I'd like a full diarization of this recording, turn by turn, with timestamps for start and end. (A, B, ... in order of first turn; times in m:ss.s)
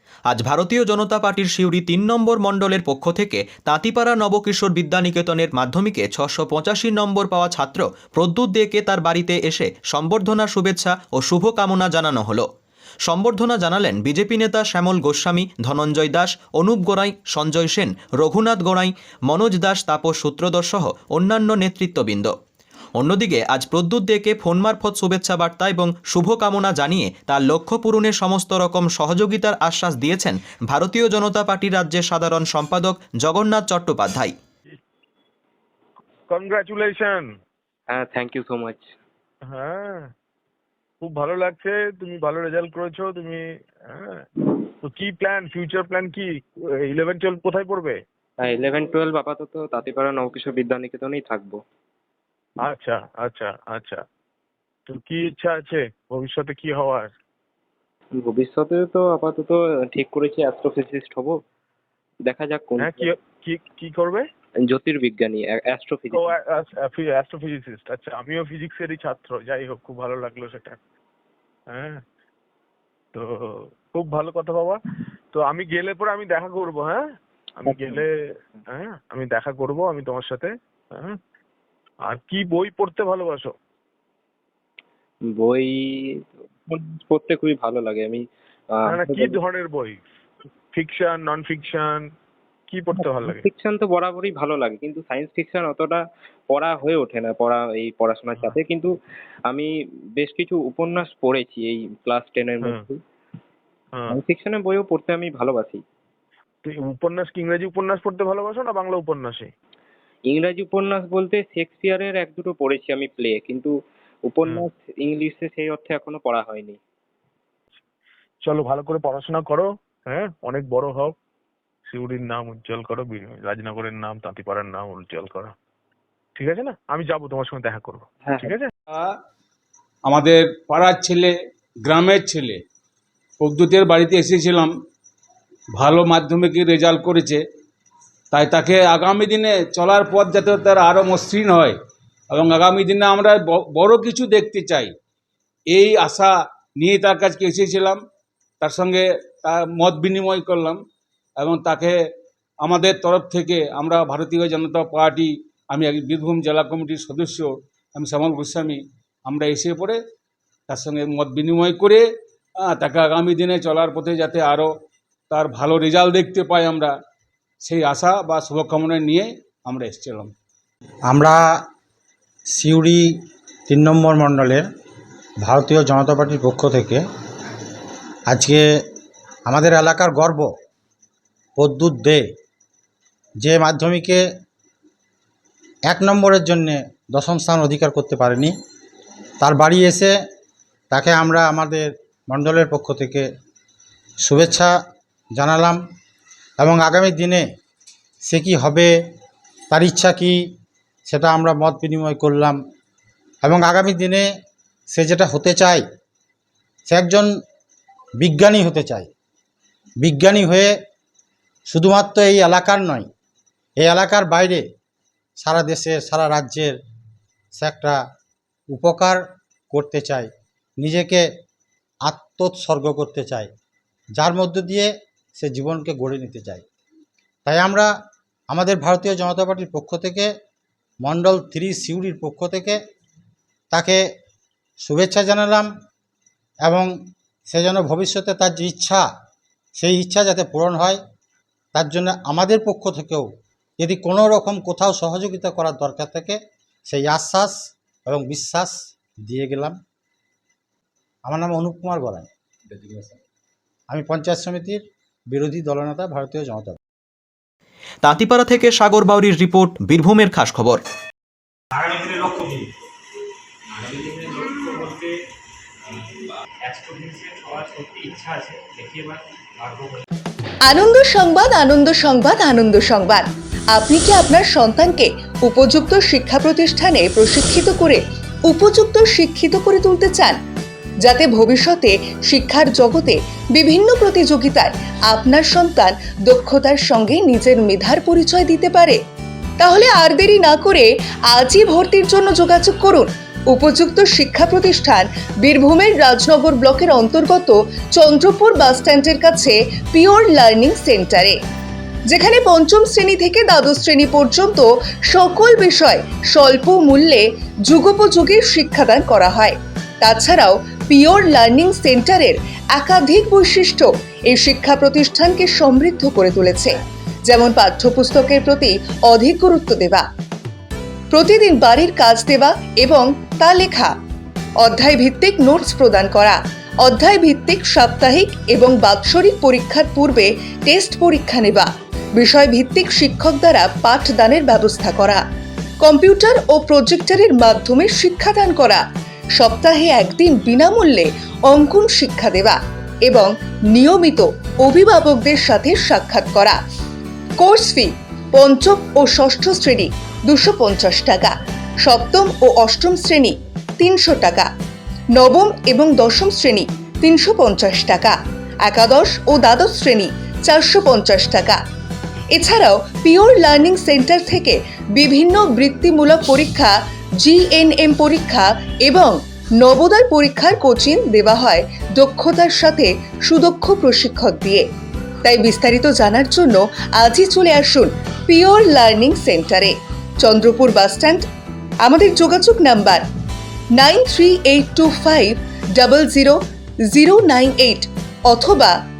0:00.3-0:12.5 A
0:13.0-0:22.3 A
0:23.0-0:34.3 A
0:36.3-0:37.3 B
0:37.9-0:38.9 C
0:39.4-0:40.1 B
0:41.0-0:44.2 B
0:44.8-0:48.0 B
0:48.4-0:51.6 C
0:52.6-0:54.0 B
0:54.9-0:57.1 B
0:58.2-1:01.4 C
1:02.3-1:03.1 C
1:02.8-1:04.2 B
1:04.7-1:06.3 C
1:06.1-1:10.8 B
1:11.7-1:12.0 B
1:13.1-1:14.8 B
1:15.3-1:17.0 B
1:17.6-1:18.1 B
1:17.7-1:18.0 C
1:18.7-1:21.2 B
1:22.0-1:23.5 B
1:25.3-1:29.4 C
1:28.9-1:30.0 B
1:30.7-1:32.1 B
1:32.7-1:33.4 B
1:33.0-1:38.9 C
1:40.2-1:43.0 C
1:44.1-1:45.8 C
1:46.6-1:49.5 B
1:50.3-1:53.7 C
1:54.2-1:56.8 C
1:58.4-2:01.1 B
2:01.9-2:05.5 B
2:06.4-2:08.7 B
2:08.2-2:08.5 C
2:10.0-2:11.3 D
2:11.8-2:12.6 D
2:13.4-2:14.7 D
2:15.8-2:17.4 D
2:18.3-2:21.8 D
2:22.3-2:24.9 D
2:25.7-2:28.0 D
2:28.6-2:30.8 D
2:31.4-2:32.0 D
2:32.6-2:40.0 D
2:40.7-2:42.1 D
2:42.6-2:44.7 D
2:45.3-2:46.9 D
2:47.6-2:50.3 D
2:51.1-2:51.4 E
2:52.6-2:53.1 E
2:53.7-2:54.6 E
2:55.4-2:57.0 E
2:58.3-2:58.6 E
2:59.4-3:00.5 E
3:01.6-3:02.3 E
3:03.4-3:04.2 E
3:05.9-3:08.5 E
3:09.4-3:10.1 E
3:10.9-3:13.3 E
3:14.2-3:14.7 E
3:15.4-3:15.8 E
3:16.6-3:17.5 E
3:18.2-3:18.9 E
3:19.7-3:20.4 E
3:21.0-3:22.6 E
3:23.4-3:24.3 E
3:24.9-3:25.8 E
3:26.9-3:27.3 E
3:28.2-3:29.1 E
3:30.0-3:30.7 E
3:31.7-3:33.1 E
3:33.8-3:34.6 E
3:35.4-3:36.8 E
3:37.6-3:38.0 E
3:38.7-3:41.2 E
3:42.0-3:43.5 E
3:44.2-3:46.6 E
3:47.4-3:47.9 E
3:48.5-3:50.3 E
3:51.0-3:52.8 E
3:53.7-3:54.0 E
3:54.8-3:55.7 E
3:56.6-3:56.9 E
3:57.5-3:59.1 E
3:59.8-4:01.0 E
4:01.7-4:09.8 E
4:11.3-4:13.1 E
4:13.9-4:16.8 E
4:18.0-4:20.8 A
4:21.8-4:22.6 F
4:26.8-4:29.2 F
4:30.6-4:40.4 G
4:41.0-4:49.0 G
4:49.6-5:01.4 G
5:02.1-5:20.0 G
5:21.1-5:23.9 G
5:24.6-5:35.2 G
5:35.8-5:38.8 G
5:39.4-5:46.6 G
5:47.4-5:54.5 G
5:55.1-6:01.6 G
6:02.3-6:14.6 G
6:15.2-6:21.2 G
6:21.8-6:23.0 G
6:23.7-6:28.8 G